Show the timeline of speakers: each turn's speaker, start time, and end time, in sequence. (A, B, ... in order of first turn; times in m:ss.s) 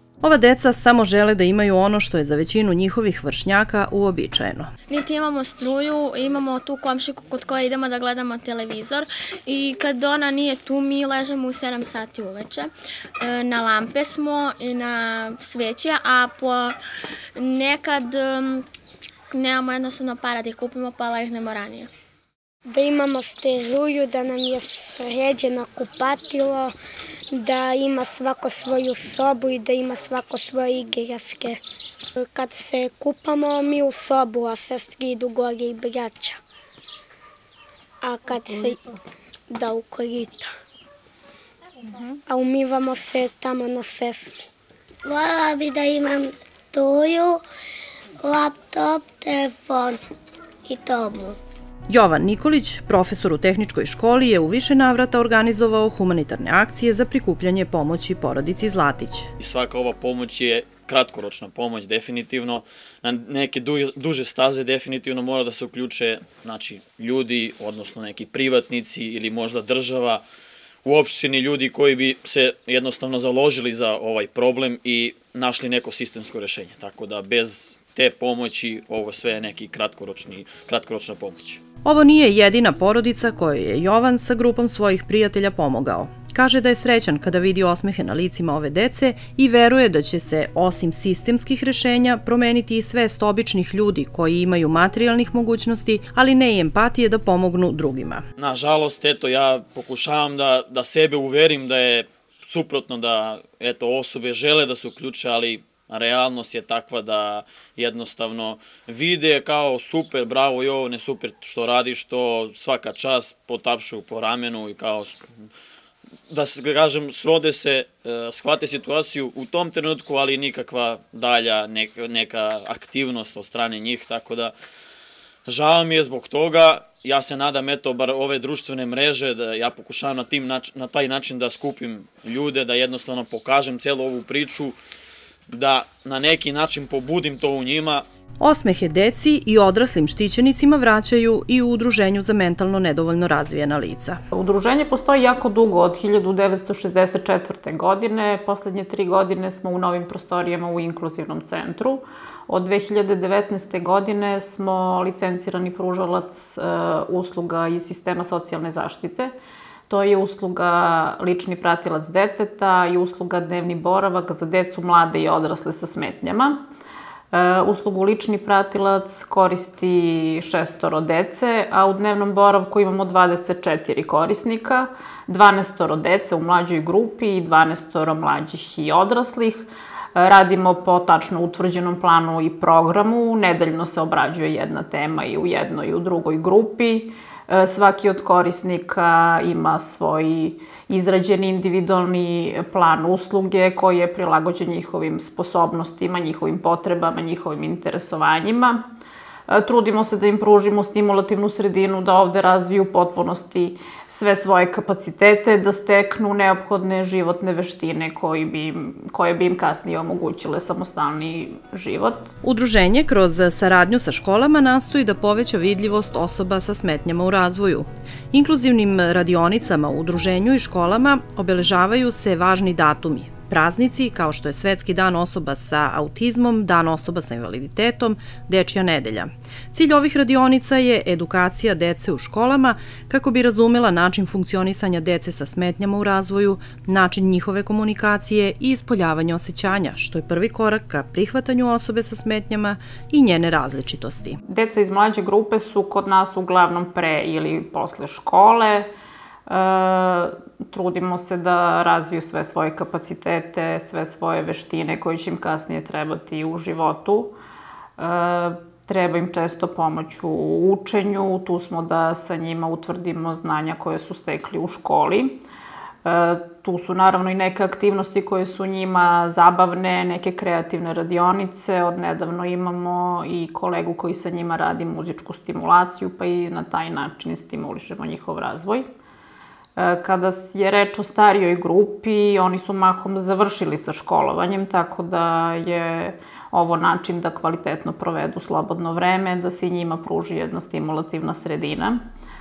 0:00.2-0:04.7 A
0:04.9-0:16.8 B
0:17.4-0:18.6 B
0:19.3-0:21.9 B
0:22.7-0:26.7 C
0:27.4-0:31.6 C
0:32.3-0:36.4 C
0:38.0-0:38.8 C
0:39.5-0:40.4 C
0:42.3-0:44.3 C
0:45.0-0:47.4 D
0:48.2-0:50.0 D
0:50.6-0:51.4 D
0:51.9-0:59.3 A
0:59.4-1:10.2 E
1:10.8-1:21.6 E
1:21.8-1:38.2 A
1:38.4-1:55.3 E
1:56.3-2:04.5 E
2:05.5-2:14.8 E
2:15.5-2:18.0 E
2:18.4-2:24.2 A
2:24.3-2:39.3 F
2:39.9-2:46.6 F
2:47.3-3:18.8 F
3:19.5-3:32.3 F
3:32.4-4:04.4 A
4:04.4-4:08.9 F
4:09.5-4:17.3 F
4:18.0-4:25.4 F
4:26.0-4:38.8 F
4:39.8-4:52.0 F